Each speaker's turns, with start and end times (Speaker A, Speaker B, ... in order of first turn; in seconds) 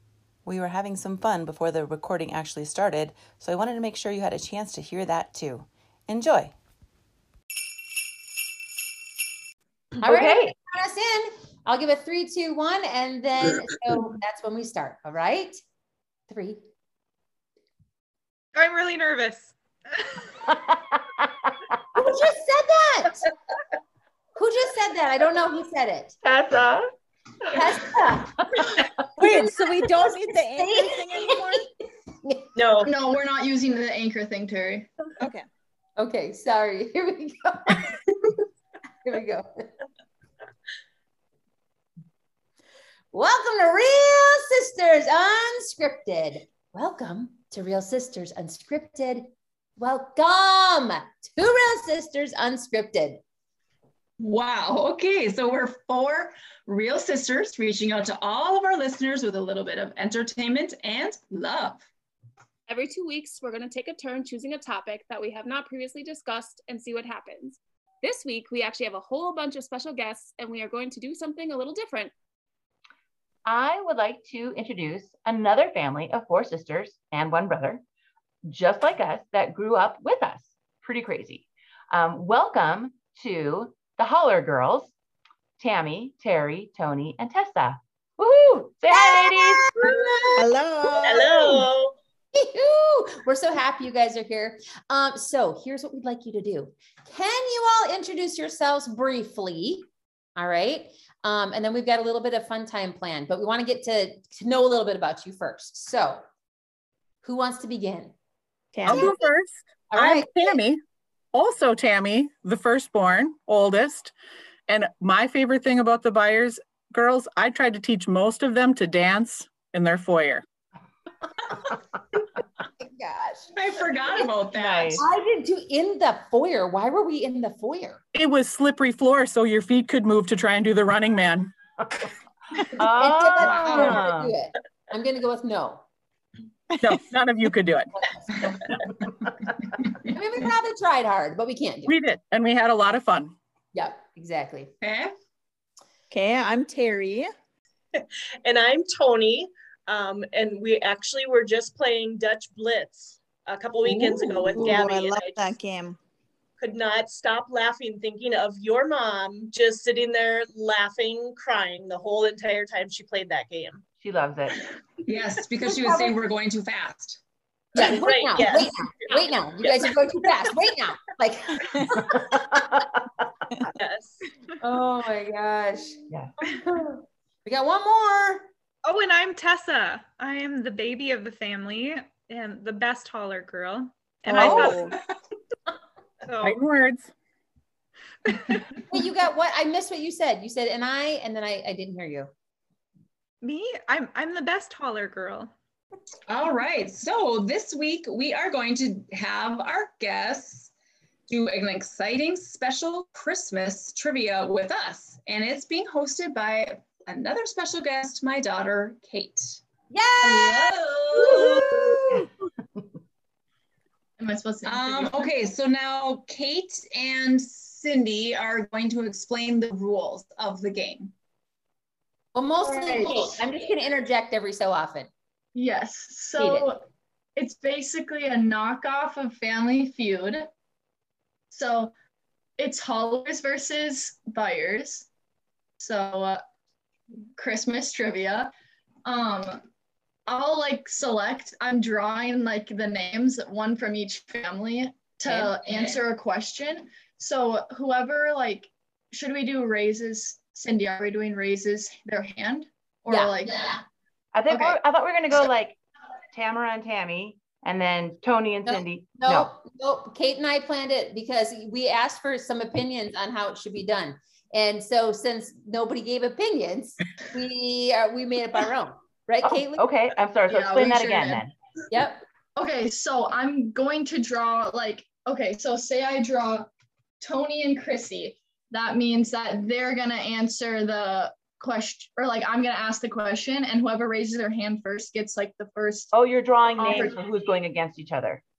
Speaker A: 0.5-6.5
Speaker B: 10.0-10.6, 20.7-21.5, 26.2-26.9, 73.5-77.8, 78.4-84.9, 85.6-89.8, 124.5-125.0, 132.8-134.3, 164.0-164.6, 172.5-173.0, 254.3-255.8, 256.3-259.5, 269.8-271.5, 286.1-288.4
Speaker C: 10.0-15.6, 16.3-16.6, 21.9-23.2, 24.4-26.2, 27.5-28.4, 29.2-31.6, 32.2-32.5, 36.0-38.0, 39.0-39.7, 43.1-53.2, 88.9-91.3, 92.3-106.2, 107.2-108.1, 109.9-110.6, 122.8-123.5, 124.9-128.0, 132.8-135.8, 140.0-141.9, 143.7-144.7, 165.7-166.1, 167.8-172.3, 174.6-178.5, 188.9-192.3, 209.9-212.2, 222.3-225.1, 226.4-226.7, 245.3-246.0, 253.1-253.4, 258.7-269.9, 271.9-272.2
Speaker D: 18.6-20.2, 178.8-185.0, 186.3-186.6, 193.4-195.5
Speaker E: 29.2-31.7, 35.2-35.5, 90.4-91.7, 108.7-109.1, 146.1-147.3, 153.8-156.0, 184.3-185.0
Speaker F: 32.5-32.9, 91.0-92.0, 147.9-155.6, 156.6-163.8, 167.8-169.9, 173.7-174.2
Speaker G: 32.8-34.9, 214.2-215.3, 222.6-223.3, 225.5-226.8, 227.4-230.5, 231.5-231.9, 232.6-235.1, 235.8-236.4, 237.4-238.5, 239.1-239.6, 240.3-253.8, 254.5-254.8, 270.5-271.4, 272.6-276.7, 277.2-286.1, 286.8-287.2
Speaker H: 54.2-61.9, 123.5-125.0, 133.4-133.9, 144.8-145.1, 165.0-167.2, 196.3-200.7, 201.3-209.6, 210.2-211.9, 214.7-221.1
Speaker I: 62.7-72.1
Speaker J: 108.9-110.8, 111.3-114.1, 114.7-120.4, 128.1-131.5, 136.8-137.9, 141.9-143.3, 186.4-187.1